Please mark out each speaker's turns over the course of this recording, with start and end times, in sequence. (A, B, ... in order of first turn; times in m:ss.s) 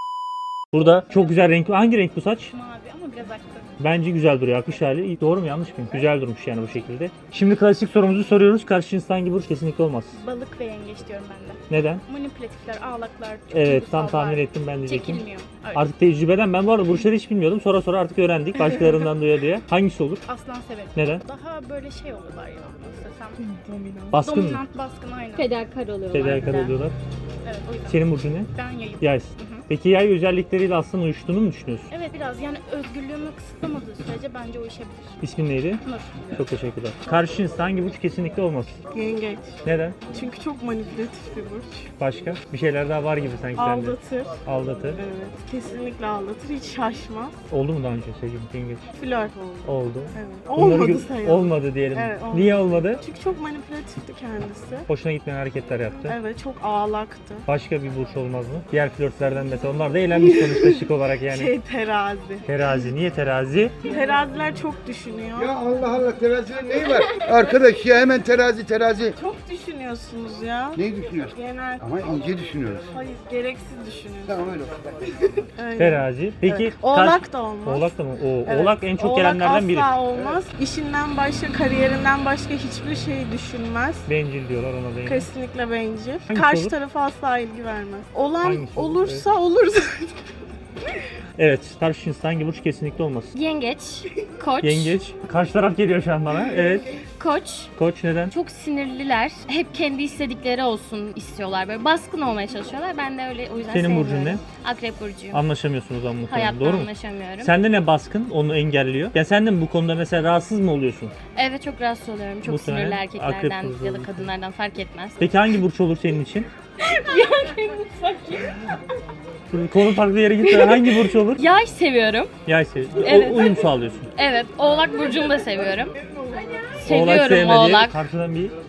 0:00.7-0:02.5 A
0:02.5-0:03.7 B
0:03.8-0:10.2 A
0:10.2-0:15.8 B
0:11.7-0:12.0 A
0:13.5-0:20.2 A
0:20.3-0:23.4 B
0:21.0-0:21.2 A
0:23.4-0:24.1 C
0:24.1-0:24.6 A
0:24.2-0:25.5 B
0:25.4-0:26.6 C
0:26.1-0:27.0 A
0:26.1-0:26.7 B
0:27.4-0:29.6 B
0:27.9-0:31.9 A
0:31.9-0:35.2 B
0:35.2-0:35.8 A
0:35.8-0:36.3 B
0:36.3-0:38.8 A
0:38.9-0:39.6 D
0:39.6-0:40.0 A
0:40.1-0:41.9 D
0:42.0-0:45.0 A
0:43.6-0:44.4 D
0:45.0-0:47.4 D
0:47.5-0:48.9 A
0:48.9-0:54.9 D
0:49.6-0:53.0 A
0:54.9-0:56.2 A
0:56.1-0:57.4 D
0:57.5-1:01.5 A
1:00.2-1:02.7 D
1:02.5-1:03.8 A
1:03.8-1:05.5 D
1:05.4-1:09.2 E
1:09.2-1:11.8 D
1:10.8-1:12.9 E
1:12.9-1:14.4 D
1:14.3-1:15.2 E
1:15.6-1:17.9 D
1:15.8-1:20.0 A
1:18.5-1:24.1 D
1:24.1-1:25.3 A
1:25.0-1:30.2 D
1:26.3-1:26.7 A
1:28.4-1:29.2 A
1:31.4-1:33.3 A
1:33.3-1:35.0 C
1:34.6-1:36.9 A
1:37.2-1:37.7 C
1:37.8-1:38.3 A
1:38.3-1:45.4 C
1:43.7-1:44.4 A
1:45.3-1:46.9 A
1:46.3-1:47.5 C
1:47.4-1:51.2 A
1:51.4-1:55.3 C
1:52.5-1:54.2 A
1:55.2-1:56.5 A
1:56.8-1:58.6 C
1:59.5-2:01.4 A
2:00.4-2:02.3 C
2:02.5-2:04.1 A
2:03.0-2:06.0 C
2:06.8-2:08.6 A
2:06.8-2:08.0 C